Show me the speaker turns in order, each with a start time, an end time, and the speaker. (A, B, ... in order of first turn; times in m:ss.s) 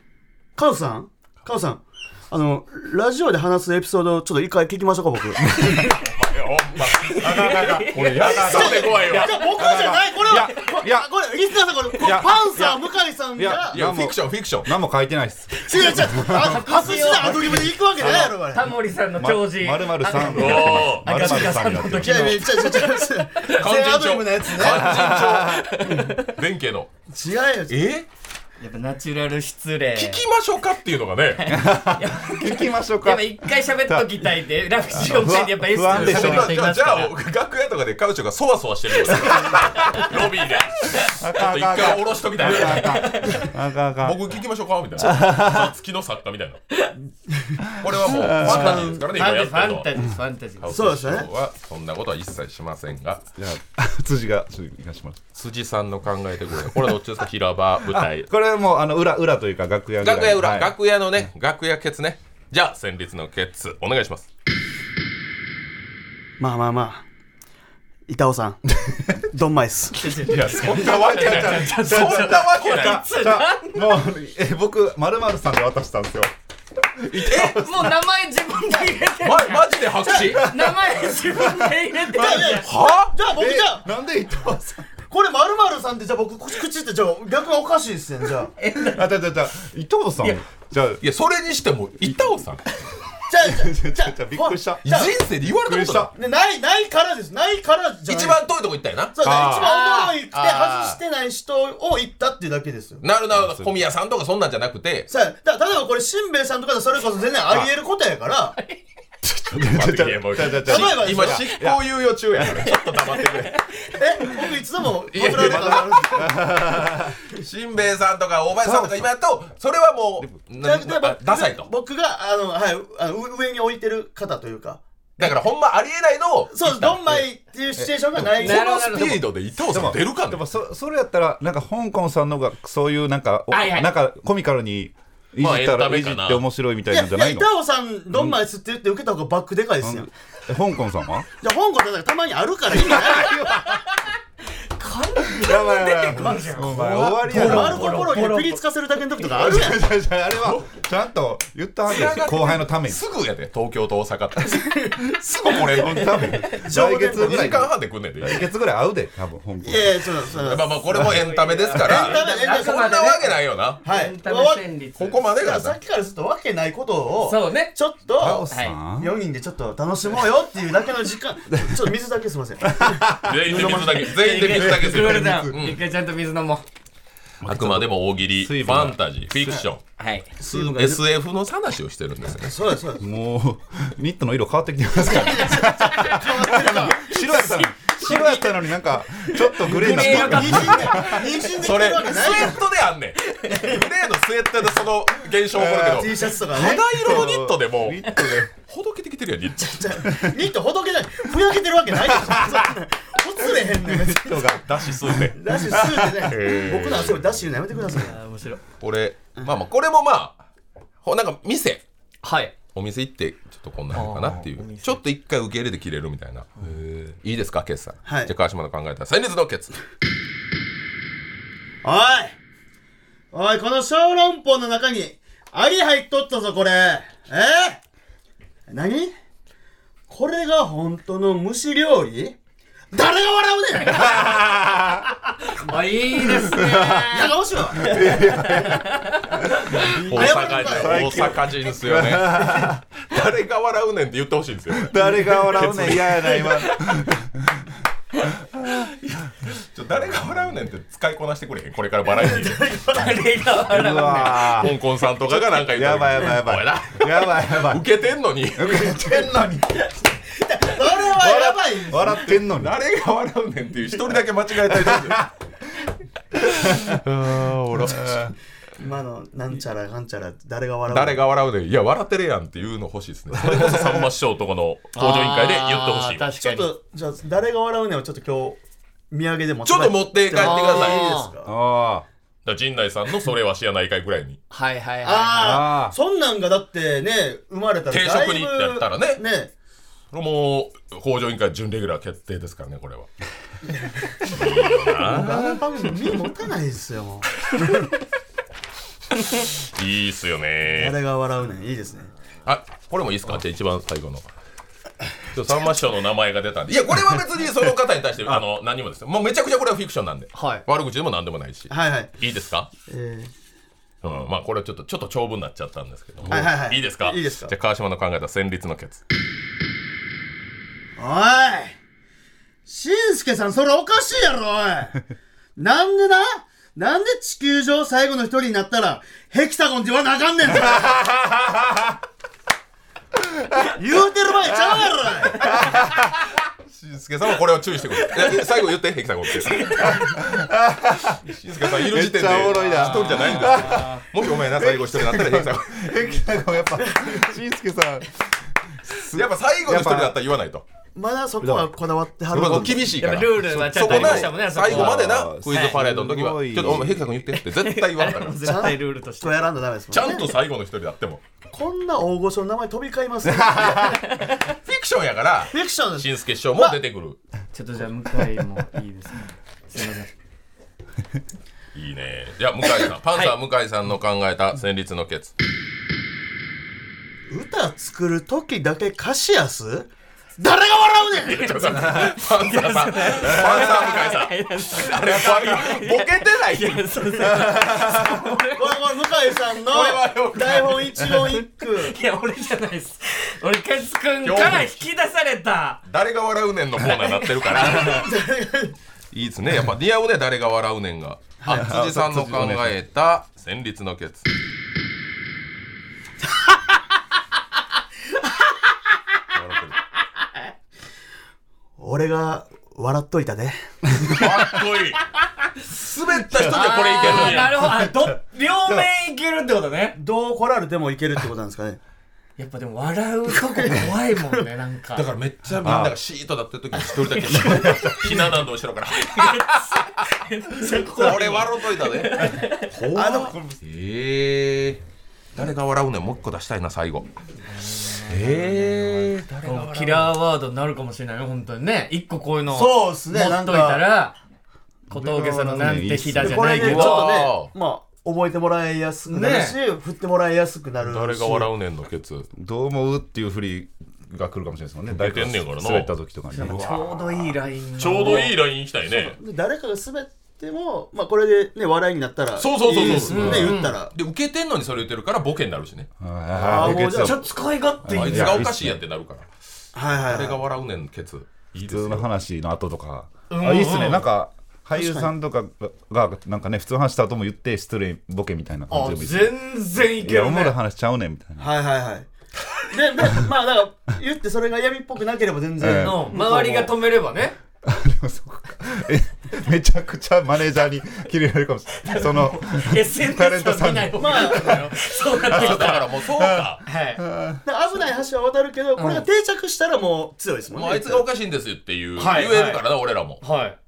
0:00.6-0:06.0 A
0:05.8-0:09.5 B
0:07.0-0:09.3 C
0:07.2-0:11.1 D
0:08.2-0:13.8 A
0:12.0-0:12.8 D
0:13.4-0:16.6 D
0:13.7-0:14.7 B
0:15.6-0:18.7 A
0:16.1-0:23.0 C
0:18.0-0:18.3 D
0:19.2-0:22.4 D
0:20.2-0:21.5 B
0:22.0-0:25.0 A
0:23.4-0:26.9 B
0:24.6-0:25.7 D
0:25.5-0:26.3 C
0:27.1-0:27.8 A
0:27.7-0:28.1 B
0:28.6-0:30.2 C
0:29.9-0:31.6 B
0:31.4-0:37.1 C
0:31.5-0:34.3 D
0:34.9-0:36.6 D
0:35.9-0:43.4 B
0:39.8-0:40.1 C
0:40.9-0:44.3 D
0:42.6-0:43.5 C
0:44.0-0:46.6 B
0:45.0-0:45.7 D
0:47.3-0:47.6 A
0:47.8-0:49.0 D
0:47.8-0:49.9 B
0:48.5-0:48.9 A
0:48.6-0:50.8 C
0:50.6-0:53.2 B
0:50.7-0:51.3 A
0:53.4-0:55.2 D
0:55.3-0:58.3 B
0:57.9-1:00.7 D
1:00.0-1:04.3 B
1:06.4-1:07.0 A
1:08.1-1:10.1 A
1:09.9-1:14.0 C
1:10.3-1:13.0 B
1:10.5-1:16.3 D
1:17.0-1:17.8 D
1:17.1-1:17.6 B
1:17.3-1:22.7 C
1:19.2-1:20.4 B
1:20.3-1:21.7 D
1:22.1-1:28.5 A
1:22.6-1:23.1 B
1:23.3-1:24.9 D
1:28.6-1:29.1 C
1:28.8-1:31.0 D
1:31.0-1:32.6 B
1:33.3-1:35.1 A
1:33.4-1:34.8 D
1:34.8-1:36.1 B
1:35.5-1:36.1 D
1:36.1-1:38.4 A
1:38.0-1:39.2 B
1:39.1-1:43.0 A
1:39.2-1:39.7 D
1:39.6-1:40.2 C
1:40.3-1:41.0 B
1:43.0-1:45.1 B
1:43.3-1:43.7 D
1:45.1-1:48.6 A
1:49.2-1:52.6 D
1:49.5-1:53.6 B
1:50.6-1:51.5 A
1:52.6-1:54.0 C
1:54.0-1:56.5 A
1:55.1-1:56.3 B
1:55.2-1:57.2 D
1:57.3-2:01.7 B
1:58.6-1:59.1 D
2:00.6-2:04.8 A
2:05.2-2:07.2 B
2:06.5-2:09.0 A
2:07.8-2:10.5 B
2:08.4-2:09.3 C
2:09.7-2:17.5 D
2:13.5-2:13.9 C
2:15.4-2:16.4 B
2:16.9-2:20.1 A
2:18.1-2:18.4 D
2:19.8-2:21.3 D
2:21.4-2:23.4 A
2:22.8-2:23.8 D
2:24.8-2:28.6 C
2:25.3-2:28.0 D
2:26.8-2:28.2 B
2:27.3-2:29.9 A
2:29.3-2:33.0 D
2:30.4-2:30.6 B
2:31.9-2:36.4 B
2:35.5-2:40.2 D
2:36.1-2:36.5 C
2:36.6-2:37.6 A
2:37.0-2:38.4 B
2:39.6-2:41.0 A
2:40.3-2:43.8 B
2:40.9-2:45.2 C
2:41.8-2:42.9 A
2:43.8-2:44.6 A
2:45.0-2:45.8 B
2:45.3-2:48.5 A
2:47.2-2:47.7 C
2:48.2-2:49.1 D
2:48.5-2:48.8 C
2:49.0-2:53.2 A
2:51.6-2:51.9 D
2:52.7-2:55.6 D
2:53.2-2:55.8 B
2:53.5-2:56.6 C
2:57.4-2:59.6 D
2:57.4-2:59.8 B
3:00.0-3:00.3 C
3:00.4-3:01.0 A
3:00.5-3:02.6 B
3:02.4-3:03.1 A
3:03.0-3:11.3 D
3:05.0-3:07.6 A
3:07.0-3:11.2 C
3:09.7-3:12.6 A
3:11.4-3:19.8 B
3:13.2-3:13.8 C
3:15.5-3:16.1 D
3:15.9-3:16.9 A
3:16.7-3:18.5 D
3:19.6-3:24.6 A
3:20.0-3:20.3 D
3:21.9-3:22.7 D
3:23.6-3:26.3 D
3:24.6-3:25.4 B
3:25.4-3:28.2 A
3:26.2-3:27.4 B
3:28.0-3:28.6 C
3:28.8-3:30.4 B
3:31.0-3:31.8 B
3:32.2-3:32.5 C
3:32.7-3:39.7 B
3:33.9-3:35.0 C
3:38.0-3:38.3 A
3:41.8-3:42.4 A
3:43.3-3:47.8 A
3:48.7-3:49.1 A
3:50.1-3:52.4 A
3:52.9-3:54.3 A
3:53.9-3:55.1 D
3:55.6-3:59.9 C
3:56.3-4:02.8 D
3:57.1-3:58.2 A
3:59.8-4:06.6 B
4:00.0-4:01.4 A
4:04.7-4:07.7 D
4:08.2-4:08.9 D
4:09.4-4:12.6 B
4:12.0-4:13.3 A
4:12.9-4:14.7 C
4:13.7-4:14.8 D
4:14.4-4:19.1 B
4:15.3-4:17.9 D
4:18.5-4:19.9 D
4:20.4-4:22.3 A
4:21.1-4:22.8 D
4:22.1-4:25.2 B
4:24.7-4:25.3 D
4:26.4-4:27.0 D
4:26.7-4:28.2 B
4:27.8-4:28.3 D
4:28.8-4:31.2 A
4:30.9-4:36.3 B
4:33.3-4:34.1 D
4:34.9-4:36.7 C
4:36.4-4:38.6 A
4:39.1-4:41.5 A
4:39.6-4:41.1 B
4:40.4-4:41.3 C
4:41.4-4:42.0 D
4:42.4-4:44.4 B
4:44.5-4:45.6 C
4:45.0-4:49.5 A
4:45.4-4:46.0 D
4:47.9-4:49.2 B
4:50.1-4:53.1 B
4:53.8-4:54.3 A
4:54.3-4:55.6 B
4:54.9-4:57.9 A
4:59.4-5:01.0 B
5:00.6-5:02.1 A
5:02.4-5:04.2 B
5:05.3-5:12.7 B
5:10.3-5:10.6 C
5:11.7-5:12.1 A
5:12.9-5:13.3 A
5:14.0-5:19.0 B
5:16.3-5:17.5 A
5:21.0-5:21.8 A
5:22.6-5:25.0 A
5:25.6-5:31.0 A
5:30.5-5:32.0 D
5:33.2-5:33.6 D
5:33.7-5:35.6 A
5:35.3-5:36.1 D
5:36.7-5:40.0 B
5:38.0-5:38.4 C
5:39.4-5:40.2 C
5:39.8-5:48.1 D
5:41.2-5:45.9 B
5:42.4-5:44.0 C
5:48.8-5:50.2 D
5:49.1-5:50.6 B
5:50.9-5:52.9 A
5:51.4-5:51.7 D
5:52.3-5:57.1 D
5:52.3-5:58.5 B
5:53.0-5:55.8 C
5:57.3-5:59.5 C
5:58.4-6:00.3 A
5:59.9-6:01.2 B
6:01.5-6:04.2 A
6:03.2-6:04.0 D
6:04.4-6:07.2 B
6:05.5-6:06.8 A
6:07.5-6:10.1 C
6:11.7-6:15.3 B
6:17.3-6:21.8 A
6:21.2-6:27.2 B
6:21.6-6:28.8 C
6:23.3-6:23.8 D
6:27.2-6:28.1 D
6:28.5-6:32.0 A
6:29.5-6:31.1 B
6:31.0-6:35.8 C
6:34.2-6:34.8 B
6:35.8-6:38.1 B
6:36.8-6:37.3 C
6:37.5-6:38.7 A
6:39.1-6:44.3 B
6:41.4-6:41.7 A
6:41.5-6:42.8 D
6:49.3-6:49.8 B
6:51.8-6:54.6 A
6:54.1-6:55.0 B
6:55.6-6:57.6 B
6:56.4-7:00.0 C
6:57.6-6:58.1 D
7:00.0-7:01.8 A
7:02.4-7:05.1 C
7:03.3-7:04.4 A
7:04.9-7:09.9 B
7:05.6-7:05.9 D
7:07.0-7:07.9 C
7:07.4-7:08.1 D
7:09.0-7:12.7 C
7:10.7-7:14.8 B
7:12.9-7:13.4 A
7:15.3-7:17.1 B
7:17.6-7:24.2 C
7:18.1-7:20.1 B
7:22.5-7:23.9 A
7:24.9-7:27.1 C
7:24.9-7:26.6 D
7:25.6-7:31.5 A
7:26.5-7:27.5 B
7:29.1-7:29.6 C
7:30.8-7:32.3 B
7:32.4-7:36.7 D
7:34.9-7:39.2 B
7:36.3-7:38.3 C
7:39.0-7:43.9 A
7:42.4-7:45.9 B
7:42.8-7:43.8 C
7:46.0-7:48.8 D
7:46.4-7:46.7 B
7:46.4-7:47.2 A
7:46.7-7:48.4 C
7:47.8-7:49.3 B
7:49.7-7:50.4 A
7:50.0-7:52.1 B
7:51.6-8:01.5 D
7:53.3-7:54.1 C
7:54.8-7:55.1 A
7:58.7-8:00.6 C
8:01.4-8:02.1 A
8:02.7-8:06.7 A
8:05.6-8:06.1 D
8:05.7-8:07.4 C
8:07.6-8:14.7 D
8:11.8-8:15.9 C
8:14.0-8:14.7 A
8:15.2-8:16.6 B
8:15.2-8:17.4 D
8:16.6-8:17.0 C
8:17.4-8:21.0 A
8:18.8-8:19.1 C
8:20.5-8:23.2 B
8:22.0-8:22.6 C
8:23.2-8:23.6 C